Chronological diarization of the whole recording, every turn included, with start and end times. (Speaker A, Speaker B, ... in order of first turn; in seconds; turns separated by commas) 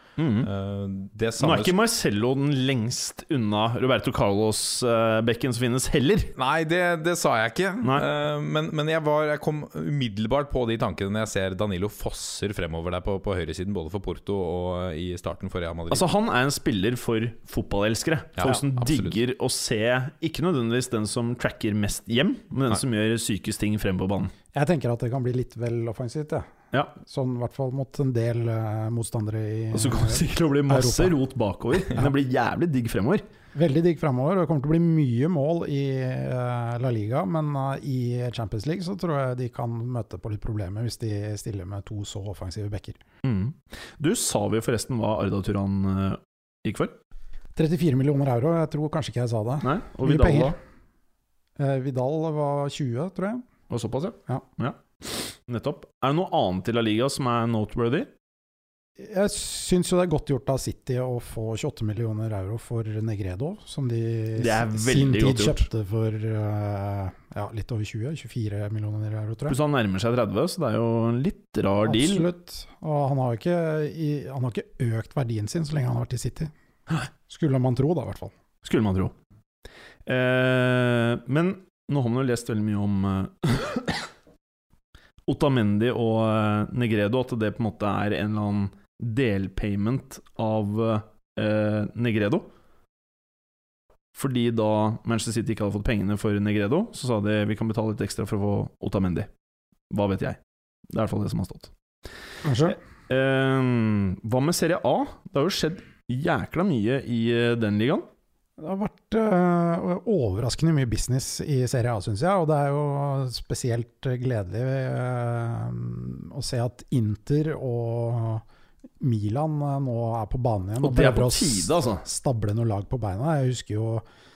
Speaker A: 0.2-0.5, Speaker B: 0.4-1.7, Speaker A: 1.4-6.3, Speaker B: 6.3-16.1, Speaker A: 15.9-24.3, Speaker B: 18.4-19.2, Speaker C: 24.5-31.2, Speaker A: 29.7-33.2, Speaker C: 33.5-43.0, Speaker A: 43.2-47.0, Speaker C: 47.5-50.6, Speaker A: 49.6-50.5, Speaker C: 51.6-53.4, Speaker A: 53.7-58.1, Speaker C: 59.0-69.6, Speaker A: 64.3-65.7, Speaker A: 69.5-72.3, Speaker C: 71.8-76.5, Speaker C: 77.3-78.3, Speaker A: 78.6-79.1, Speaker A: 80.0-84.0, Speaker A: 85.3-92.5, Speaker A: 94.1-99.3, Speaker A: 99.9-101.7, Speaker C: 102.4-102.8, Speaker A: 103.1-108.0, Speaker C: 108.6-118.4, Speaker C: 119.0-124.0, Speaker A: 120.8-122.0